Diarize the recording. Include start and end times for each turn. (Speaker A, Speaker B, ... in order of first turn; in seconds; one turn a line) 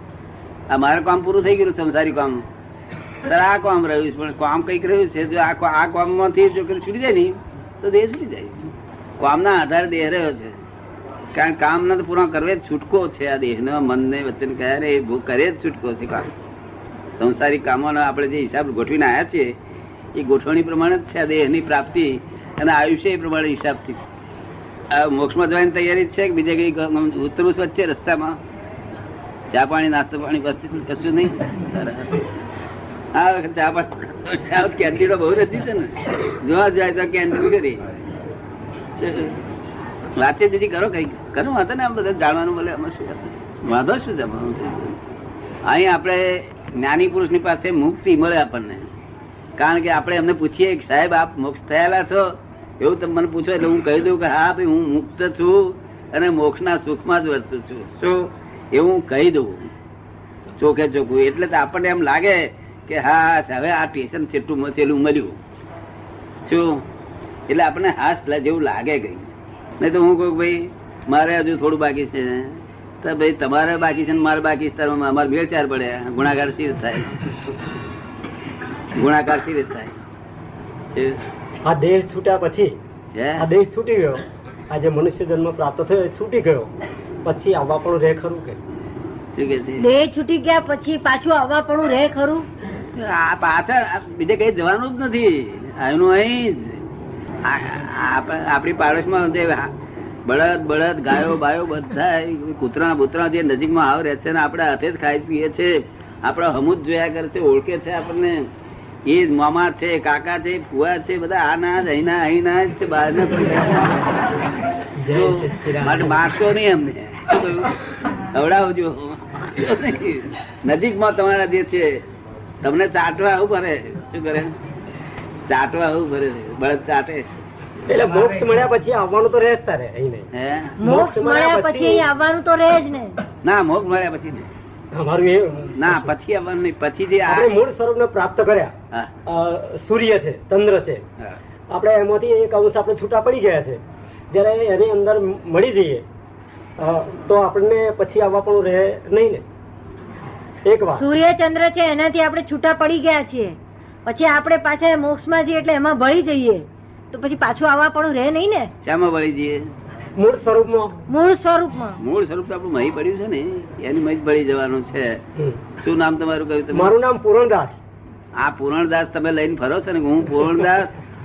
Speaker A: 0.7-2.4
Speaker A: 3.2-10.6
Speaker A: 11.3-16.3
Speaker A: 17.2-19.5
Speaker A: 20.1-24.0
Speaker A: 24.9-28.4
Speaker A: 29.5-32.2
Speaker A: 33.1-37.9
Speaker A: 39.0-39.4
Speaker A: 40.2-45.0
Speaker A: 45.6-48.9
Speaker A: 49.6-59.7
Speaker A: 60.5-65.4
Speaker A: 66.5-66.8
Speaker A: 67.5-77.2
Speaker A: 78.9-79.9
Speaker A: 80.9-81.2
Speaker B: 81.6-82.8
Speaker A: 83.1-83.5
Speaker B: 83.4-86.7
Speaker B: 87.2-88.6
Speaker A: 89.3-89.8
Speaker C: 89.8-92.4
Speaker A: 92.9-96.8
Speaker A: 97.4-99.7
Speaker A: 100.2-108.5
Speaker A: 109.0-114.3
Speaker B: 115.0-116.2
Speaker A: 115.1-117.8
Speaker A: 118.3-122.0
Speaker A: 122.6-124.5
Speaker A: 125.5-127.2
Speaker B: 127.9-130.3
Speaker A: 130.3-130.8
Speaker C: 130.8-133.2
Speaker B: 130.8-132.1
Speaker A: 133.4-134.5
Speaker B: 134.9-136.0
Speaker A: 135.7-137.5
Speaker B: 137.3-138.7
Speaker B: 139.2-141.0
Speaker B: 141.7-146.0
Speaker B: 146.8-149.4
Speaker B: 150.6-151.1
Speaker C: 150.9-158.7
Speaker A: 158.8-159.6
Speaker B: 160.2-160.9
Speaker C: 161.1-162.0
Speaker A: 162.0-165.2
Speaker A: 165.8-166.9
Speaker B: 166.7-167.8
Speaker A: 168.4-170.9